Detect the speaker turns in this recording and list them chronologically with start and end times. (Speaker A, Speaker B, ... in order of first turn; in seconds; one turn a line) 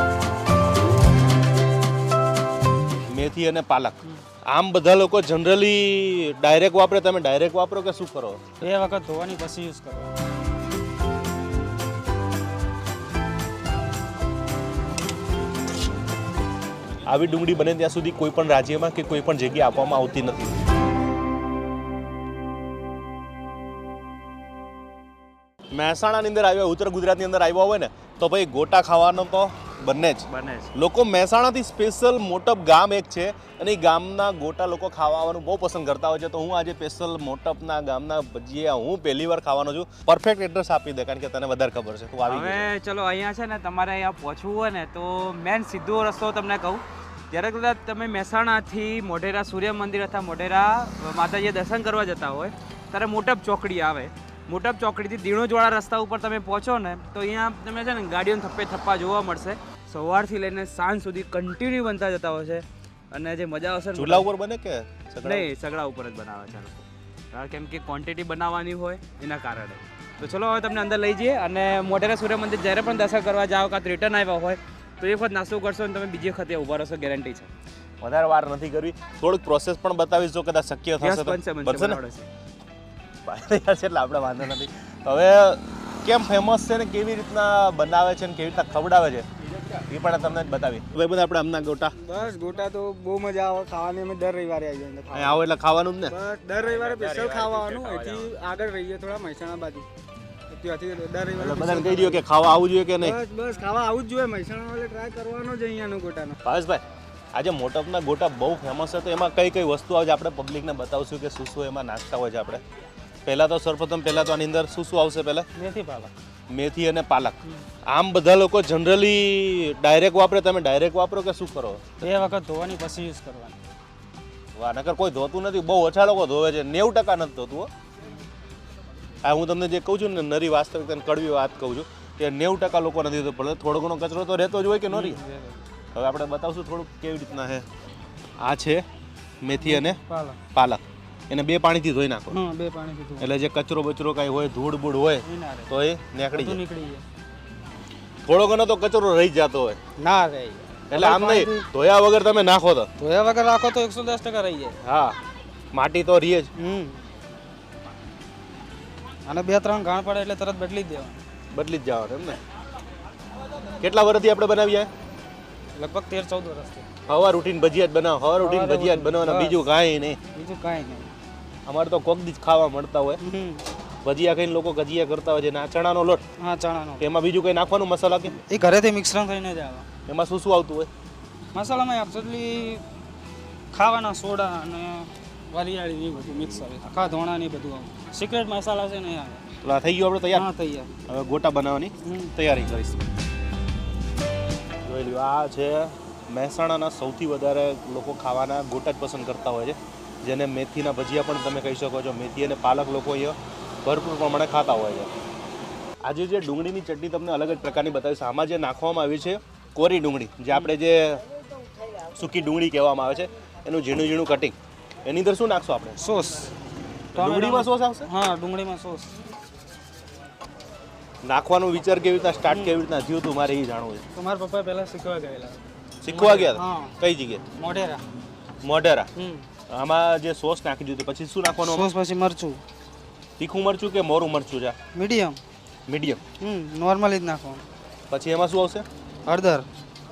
Speaker A: 3.1-4.0
Speaker A: 4.5-8.4
Speaker B: 8.6-10.1
Speaker A: 17.1-20.6
Speaker A: 25.7-42.7
Speaker C: 30.3-30.7
Speaker C: 42.3-64.3
Speaker A: 64.0-65.5
Speaker C: 65.2-77.5
Speaker A: 78.0-82.0
Speaker C: 81.0-82.3
Speaker A: 83.2-92.0
Speaker B: 92.0-95.5
Speaker A: 95.1-96.2
Speaker B: 96.1-99.9
Speaker C: 96.6-98.3
Speaker B: 100.5-102.3
Speaker A: 101.4-103.2
Speaker B: 103.0-106.4
Speaker A: 106.4-106.8
Speaker A: 107.3-112.6
Speaker A: 113.2-115.5
Speaker B: 115.5-116.1
Speaker A: 116.5-122.1
Speaker B: 122.0-123.6
Speaker A: 124.6-127.7
Speaker A: 129.2-135.2
Speaker B: 134.9-135.6
Speaker A: 135.9-137.7
Speaker A: 138.4-138.8
Speaker A: 139.4-140.0
Speaker B: 139.6-140.4
Speaker A: 140.5-142.4
Speaker B: 142.3-143.3
Speaker A: 143.2-146.6
Speaker B: 145.2-145.7
Speaker B: 146.3-147.0
Speaker A: 148.3-149.8
Speaker B: 150.0-151.7
Speaker A: 150.9-152.9
Speaker B: 153.0-154.8
Speaker A: 154.8-155.2
Speaker A: 155.7-156.5
Speaker B: 156.6-157.0
Speaker B: 159.3-161.2
Speaker A: 161.5-162.4
Speaker A: 163.8-164.9
Speaker B: 165.8-166.9
Speaker A: 167.1-170.2
Speaker B: 168.4-169.7
Speaker B: 170.3-171.1
Speaker A: 171.7-173.2
Speaker B: 173.2-173.7
Speaker A: 174.0-176.2
Speaker B: 176.4-177.1
Speaker A: 177.0-178.4
Speaker B: 178.3-179.9
Speaker A: 180.1-180.9
Speaker B: 181.5-182.8
Speaker B: 183.7-189.4
Speaker A: 189.6-190.5
Speaker B: 190.3-190.9
Speaker A: 191.1-193.0
Speaker B: 192.0-192.3
Speaker A: 194.8-205.1
Speaker A: 206.0-211.2
Speaker A: 212.1-216.0
Speaker B: 216.0-216.6
Speaker A: 217.1-218.1
Speaker B: 217.1-219.2
Speaker A: 221.2-224.0
Speaker B: 222.5-222.8
Speaker B: 224.1-226.9
Speaker A: 226.0-227.4
Speaker B: 227.6-228.0
Speaker A: 228.6-229.1
Speaker B: 229.2-229.5
Speaker A: 229.7-231.9
Speaker B: 231.6-232.6
Speaker A: 233.4-234.8
Speaker B: 234.9-235.4
Speaker A: 235.9-236.2
Speaker B: 236.4-237.6
Speaker A: 238.1-238.8
Speaker B: 239.3-239.7